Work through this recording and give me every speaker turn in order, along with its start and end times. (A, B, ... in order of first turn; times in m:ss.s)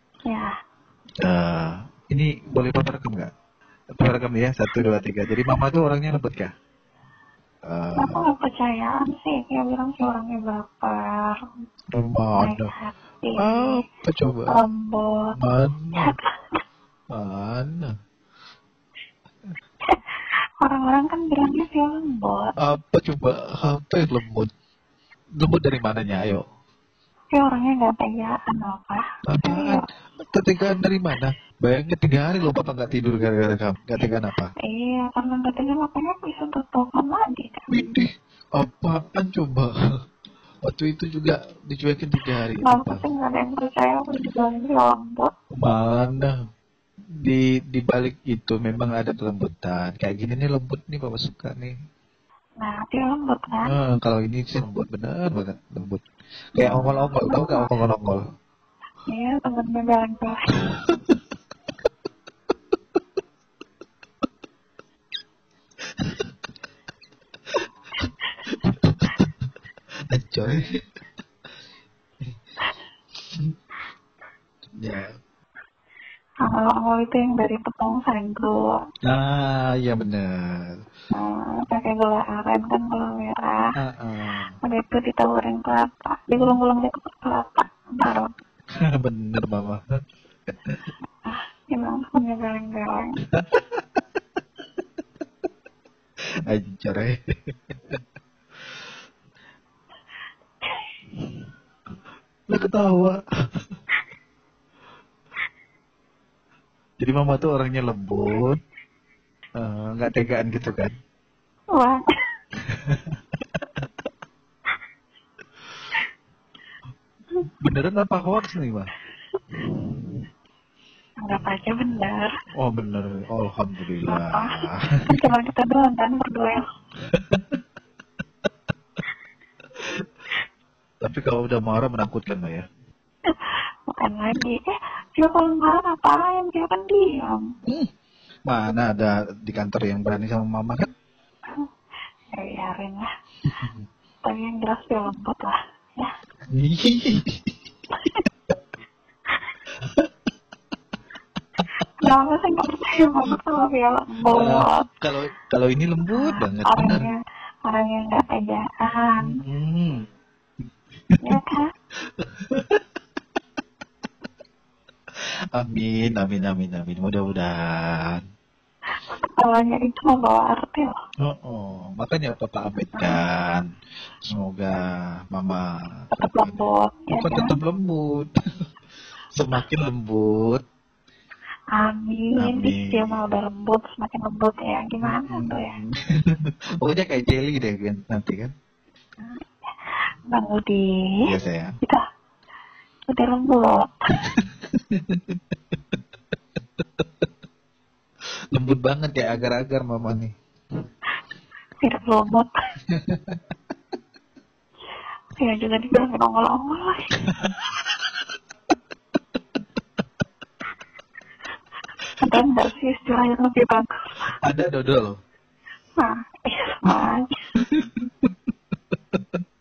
0:01.2-0:03.3 A
0:04.0-0:06.5 A
0:07.7-0:08.2 A
0:08.0-0:11.4 B
0:11.9-0:12.7 A
0:12.4-0:13.8 B
0:13.4-0:14.5 A
0:14.5-0:15.3 B
0:15.4-0:16.1 A
0:15.9-0:16.6 B
0:17.1-0:17.9 A
0:19.9-0:22.5 B
0:22.6-0:24.5 A
0:25.4-0:26.4 A
0:27.3-0:29.8 B
0:29.3-0:34.5 A
0:34.6-0:37.7 B
0:37.7-0:39.7 A
0:40.6-0:43.0 A
0:42.6-0:45.3 B
0:45.6-0:46.3 A
0:47.2-0:51.7 A
0:52.6-0:53.7 B
0:53.6-0:56.0 A
0:56.6-0:57.7 B
0:56.6-0:58.2 A
0:59.1-1:00.5 B
1:08.5-1:09.3 A
1:10.1-1:10.6 A
1:14.8-1:15.1 A
1:16.4-1:18.8 B
1:19.0-1:20.8 A
1:21.1-1:23.6 B
1:23.8-1:24.5 A
1:24.6-1:28.3 B
1:28.8-1:29.8 A
1:31.2-1:33.1 B
1:33.3-1:33.8 A
1:36.4-1:37.2 A
1:37.7-1:38.0 A
1:42.5-1:43.2 A
1:47.0-1:48.6 A
1:49.6-1:50.9 A
1:51.7-1:52.0 B
1:52.7-1:53.2 A
1:57.6-1:58.9 A
2:01.2-2:02.3 B
2:02.5-2:05.0 A
2:04.1-2:06.6 B
2:07.1-2:07.4 A
2:11.0-2:12.6 A
2:13.3-2:17.4 B
2:18.5-2:20.9 A
2:22.3-2:23.1 B
2:23.5-2:23.8 A
2:24.2-2:26.1 B
2:26.5-2:27.5 A
2:32.0-2:34.8 B
2:34.3-2:37.0 A
2:36.1-2:39.4 B
2:39.2-2:40.0 A
2:41.2-2:41.7 B
2:42.2-2:42.8 A
2:45.5-2:48.2 A
2:49.0-2:51.0 B
2:51.2-2:53.6 A
2:54.3-2:56.6 A
2:56.1-2:57.5 B
2:57.1-2:58.3 A
2:59.3-3:00.6 A
3:01.7-3:05.8 B
3:02.4-3:03.2 A
3:05.0-3:08.5 A
3:09.2-3:11.2 B
3:11.2-3:11.7 A
3:13.1-3:14.0 B
3:14.2-3:15.4 A
3:18.5-3:20.3 A
3:21.8-3:22.5 B
3:22.9-3:23.4 A
3:25.4-3:27.1 B
3:32.2-3:34.3 B
3:34.4-3:35.2 A
3:36.0-3:37.4 B
3:37.6-3:38.3 A
3:39.1-3:39.4 A